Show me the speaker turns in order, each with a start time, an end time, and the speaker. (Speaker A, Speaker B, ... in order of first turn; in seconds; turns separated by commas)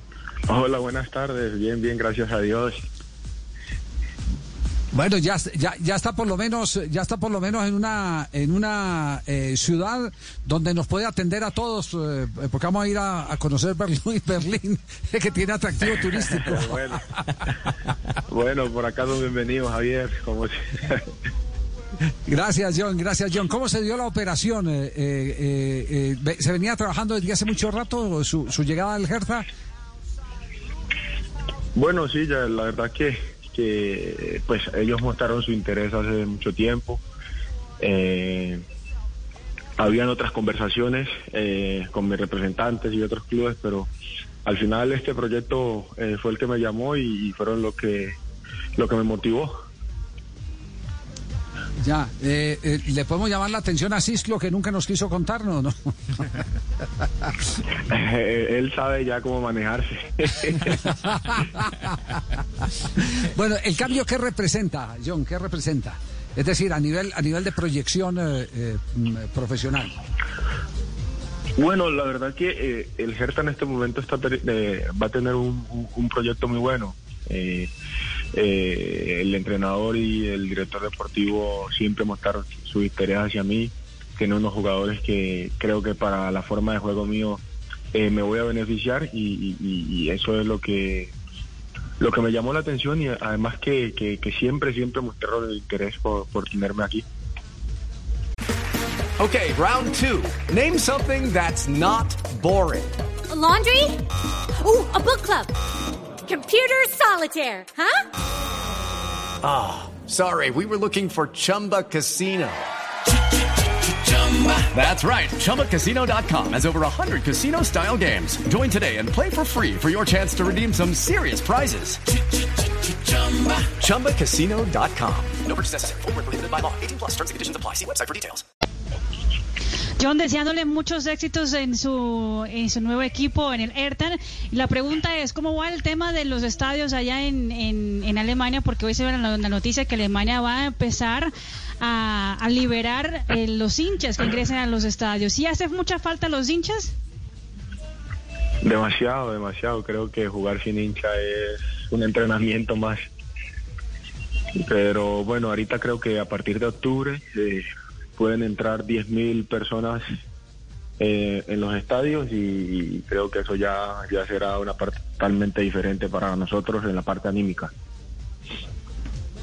Speaker A: 0.5-2.8, Speaker B: 4.9-17.4, Speaker A: 16.6-17.0, Speaker A: 18.3-21.0, Speaker B: 22.3-29.4, Speaker A: 31.8-37.0, Speaker A: 37.8-38.6, Speaker A: 39.8-43.9, Speaker A: 44.5-48.2, Speaker A: 48.8-49.5, Speaker B: 51.8-56.4, Speaker A: 57.9-60.9, Speaker B: 60.9-62.0, Speaker B: 63.0-69.9, Speaker A: 71.6-77.7, Speaker A: 78.3-87.4, Speaker A: 87.9-91.1, Speaker A: 92.0-97.0, Speaker C: 99.2-103.0, Speaker D: 103.3-104.0, Speaker D: 104.6-105.5, Speaker D: 106.2-108.0, Speaker C: 109.4-112.7, Speaker C: 114.3-122.0, Speaker C: 123.1-125.3, Speaker E: 125.3-128.4, Speaker F: 130.0-141.3, Speaker F: 141.8-146.9, Speaker A: 148.6-153.0, Speaker A: 154.6-160.0, Speaker A: 161.0-167.7